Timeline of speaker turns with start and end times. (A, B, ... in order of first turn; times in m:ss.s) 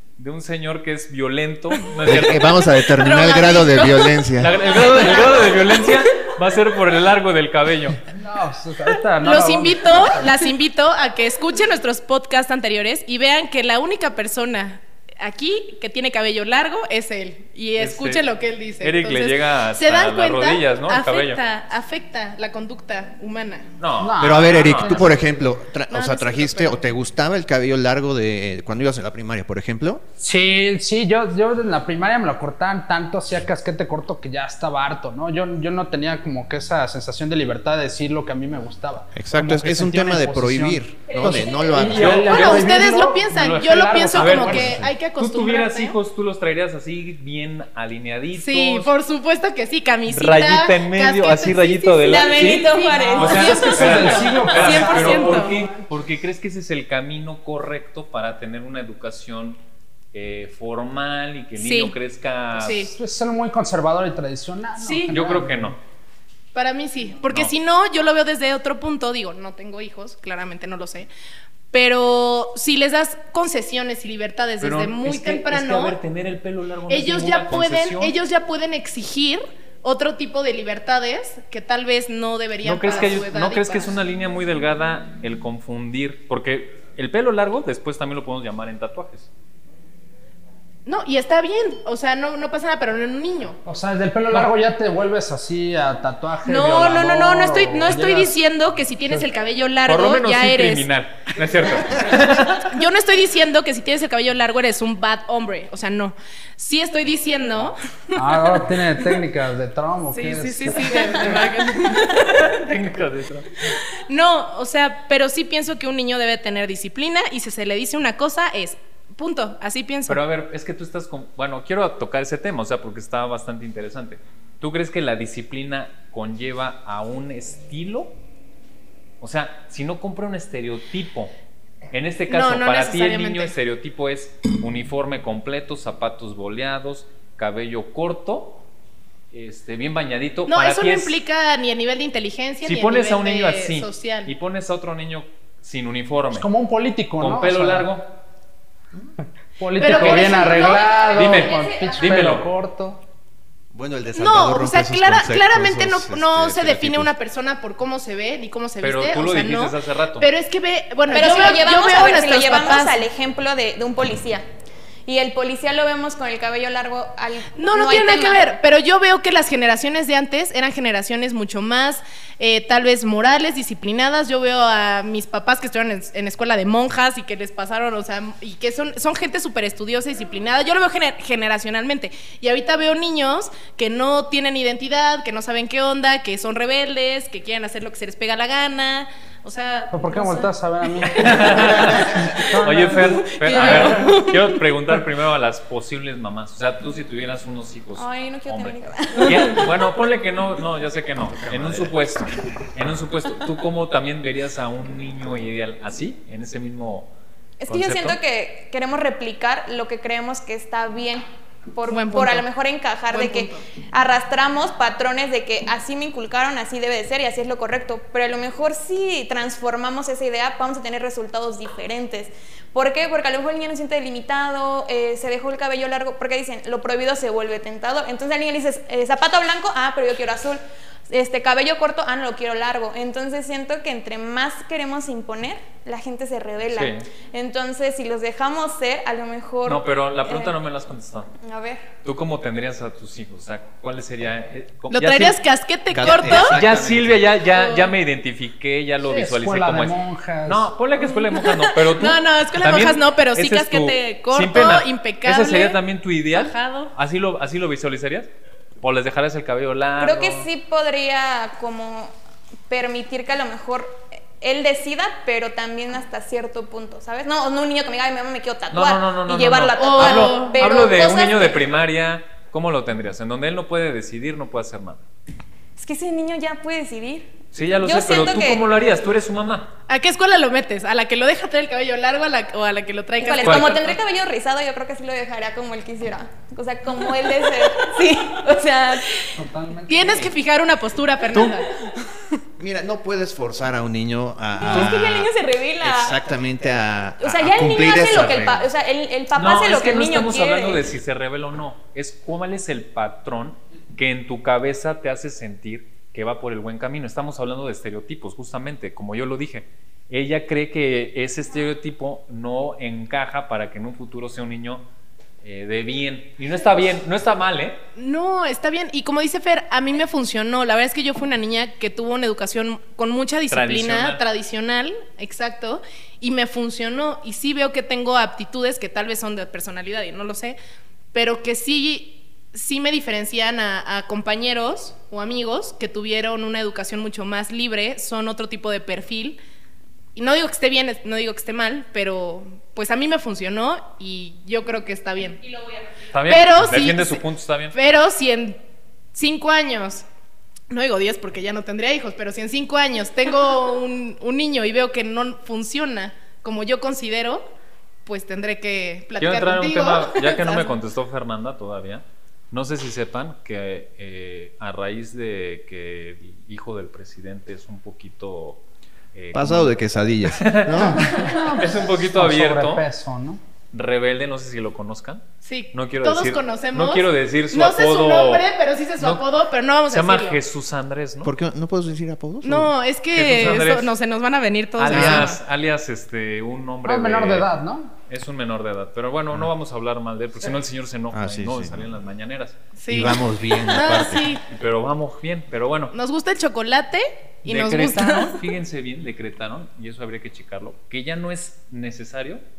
0:00.2-0:02.6 A
0:02.0-0:04.6 B
0:02.9-0:04.3 C
0:04.4-0:08.0 A
0:08.1-0:10.4 D
0:09.2-0:23.7 C
0:17.8-0:18.3 A
0:18.8-0:21.4 A
0:23.8-0:25.2 A
0:24.0-0:25.3 D
0:24.2-0:30.0 B
0:25.9-0:26.8 C
0:30.2-0:44.8 D
0:39.2-0:42.7 B
0:41.1-0:42.0 E
0:41.9-0:42.3 A
0:42.0-0:45.9 C
0:44.1-0:48.9 A
0:48.4-0:55.6 C
0:50.1-0:59.6 A
0:52.1-0:54.8 E
0:53.3-0:55.9 D
1:00.1-1:02.9 A
1:01.6-1:01.9 C
1:02.6-1:02.9 C
1:02.8-1:05.8 D
1:04.8-1:05.1 C
1:05.1-1:05.8 A
1:06.5-1:11.1 C
1:11.7-1:16.0 C
1:14.6-1:18.1 A
1:16.9-1:23.9 C
1:22.6-1:29.3 A
1:30.8-1:33.6 C
1:33.6-1:38.4 D
1:36.4-1:40.9 C
1:39.8-1:42.7 A
1:42.6-1:48.6 C
1:48.1-1:51.4 D
1:50.1-1:52.8 C
1:51.9-1:53.5 A
1:53.7-2:00.2 C
2:00.1-2:08.1 A
2:09.2-2:11.3 A
2:11.9-2:18.6 A
2:12.3-2:13.5 C
2:19.3-2:21.2 A
2:20.5-2:24.3 C
2:22.6-2:26.5 A
2:26.3-2:27.9 D
2:27.2-2:28.1 A
2:29.6-2:33.0 D
2:29.8-2:31.2 C
2:30.4-2:32.0 E
2:31.1-2:32.5 A
2:33.7-2:37.1 B
2:34.2-2:43.0 C
2:38.8-2:40.3 A
2:41.1-2:44.4 E
2:45.0-2:48.5 E
2:47.6-3:10.5 C
3:09.9-3:13.9 D
3:11.1-3:27.1 A
3:13.3-3:14.4 C
3:18.0-3:19.7 E
3:21.4-3:22.0 B
3:27.6-4:00.6 E
3:27.7-3:28.2 A
3:31.8-3:32.4 C
3:33.1-3:33.6 C
3:56.7-3:57.1 A
3:59.6-4:01.3 A
4:01.4-4:01.9 E
4:02.0-4:05.4 A
4:04.9-4:06.6 C
4:05.9-4:07.4 B
4:06.0-4:18.3 A
4:07.5-4:07.9 C
4:09.0-4:10.7 D
4:11.0-4:15.8 C
4:16.3-4:16.9 C
4:18.8-4:20.5 A
4:20.0-4:22.1 E
4:22.7-4:31.7 E
4:28.7-4:35.0 A
4:29.8-4:30.6 C
4:35.8-4:38.7 E
4:37.5-4:39.7 A
4:39.9-4:43.8 C
4:43.2-4:49.3 E
4:43.3-4:44.0 A
4:49.3-4:50.3 D
4:49.9-4:52.4 C
4:52.6-4:58.7 B
4:54.6-4:56.2 E
4:57.2-5:00.8 E
4:59.3-5:14.8 A
5:15.4-5:17.8 A
5:18.0-5:30.6 C
5:23.5-5:24.2 A
5:31.1-5:39.4 C
5:40.2-5:45.6 C
5:46.1-5:47.8 A
5:46.2-5:48.6 C
5:49.1-5:50.0 C
5:50.7-5:57.5 C
5:58.0-6:00.7 C
5:59.2-6:08.6 A
6:09.1-6:09.7 A
6:09.3-6:11.3 B
6:10.3-6:12.8 A
6:10.7-6:13.4 D
6:13.7-6:18.5 A
6:15.4-6:20.4 C
6:19.0-6:19.3 A
6:19.9-6:21.3 A
6:21.2-6:22.7 B
6:22.4-6:25.4 C
6:23.1-6:23.9 A
6:24.8-6:27.5 A
6:24.9-6:25.4 B
6:26.8-6:27.9 D
6:28.1-6:32.6 A
6:31.1-6:31.9 B
6:32.8-6:34.4 C
6:32.9-6:34.3 B
6:34.5-6:35.9 A
6:35.9-6:38.4 C
6:37.4-6:42.4 A